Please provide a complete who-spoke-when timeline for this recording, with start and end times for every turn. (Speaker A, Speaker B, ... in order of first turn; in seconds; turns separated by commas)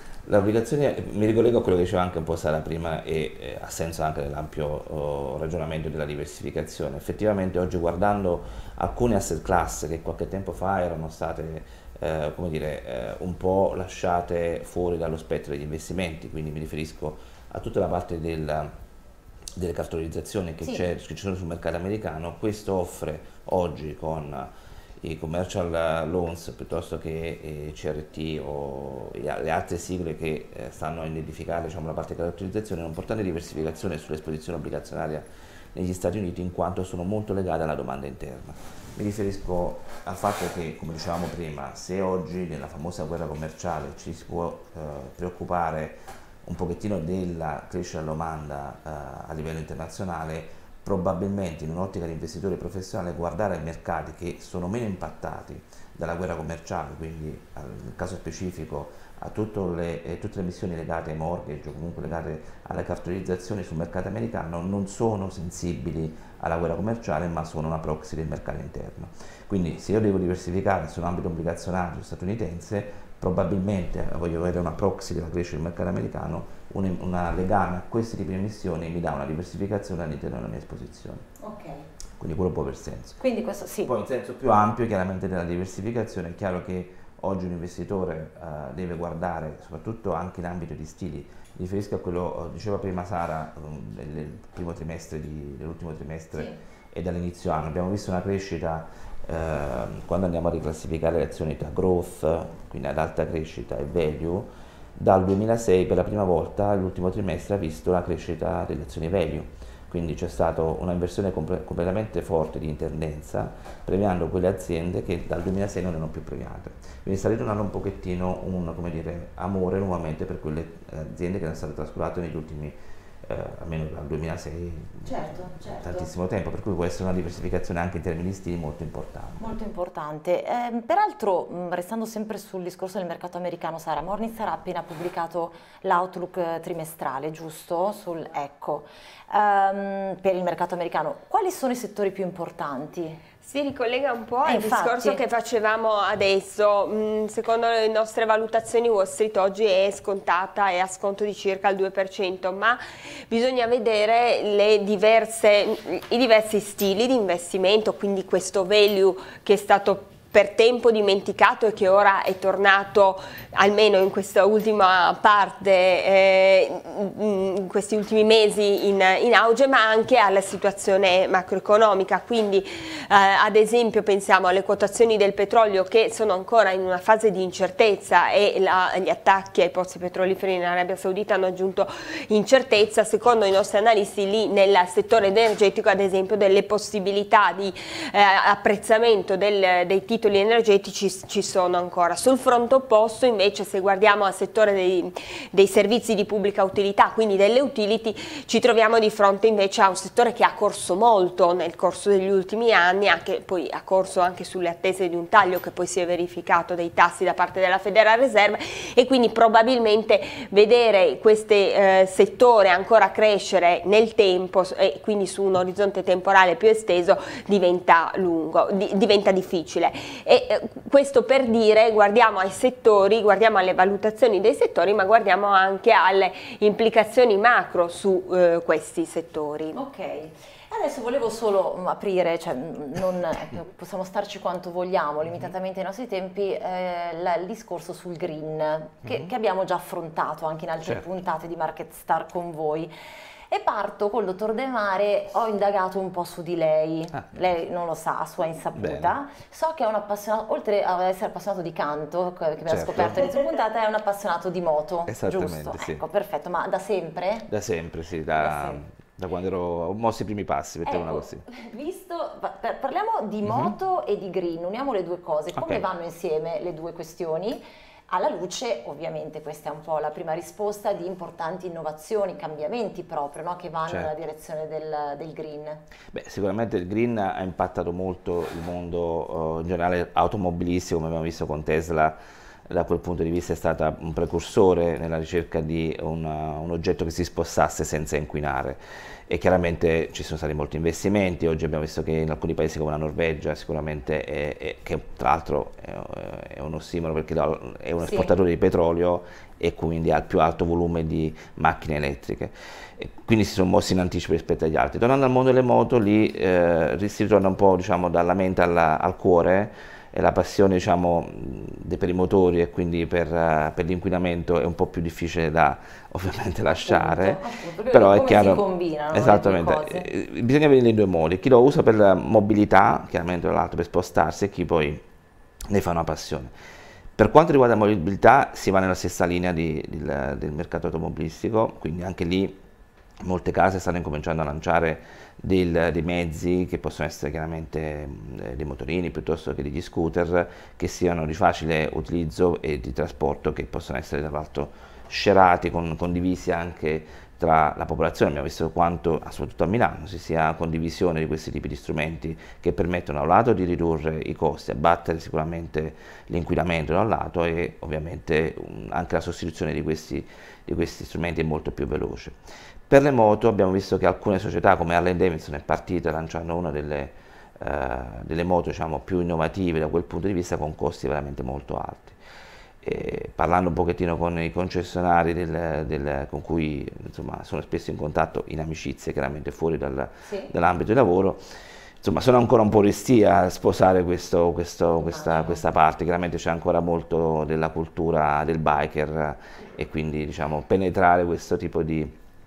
Speaker A: 0.3-18.7, Speaker A: 19.6-81.3, Speaker B: 81.4-81.9, Speaker A: 82.2-83.2, Speaker B: 83.2-83.9, Speaker A: 83.9-129.5, Speaker B: 125.0-126.1, Speaker B: 129.4-143.2, Speaker C: 143.4-229.8, Speaker B: 144.4-145.2, Speaker B: 229.7-242.9, Speaker B: 243.5-257.5, Speaker A: 248.8-249.2, Speaker A: 252.7-253.3, Speaker A: 255.1-256.0, Speaker A: 257.5-261.4, Speaker B: 258.4-258.8, Speaker B: 260.9-275.8, Speaker A: 263.5-263.8, Speaker A: 265.6-265.9, Speaker A: 276.1-282.2, Speaker A: 282.7-325.0, Speaker B: 298.0-298.3, Speaker B: 316.8-320.1, Speaker A: 325.7-326.5, Speaker A: 327.2-332.6, Speaker A: 333.2-362.4, Speaker A: 362.9-372.2, Speaker A: 372.8-381.4, Speaker B: 380.2-380.5, Speaker A: 382.0-392.2, Speaker B: 385.1-385.6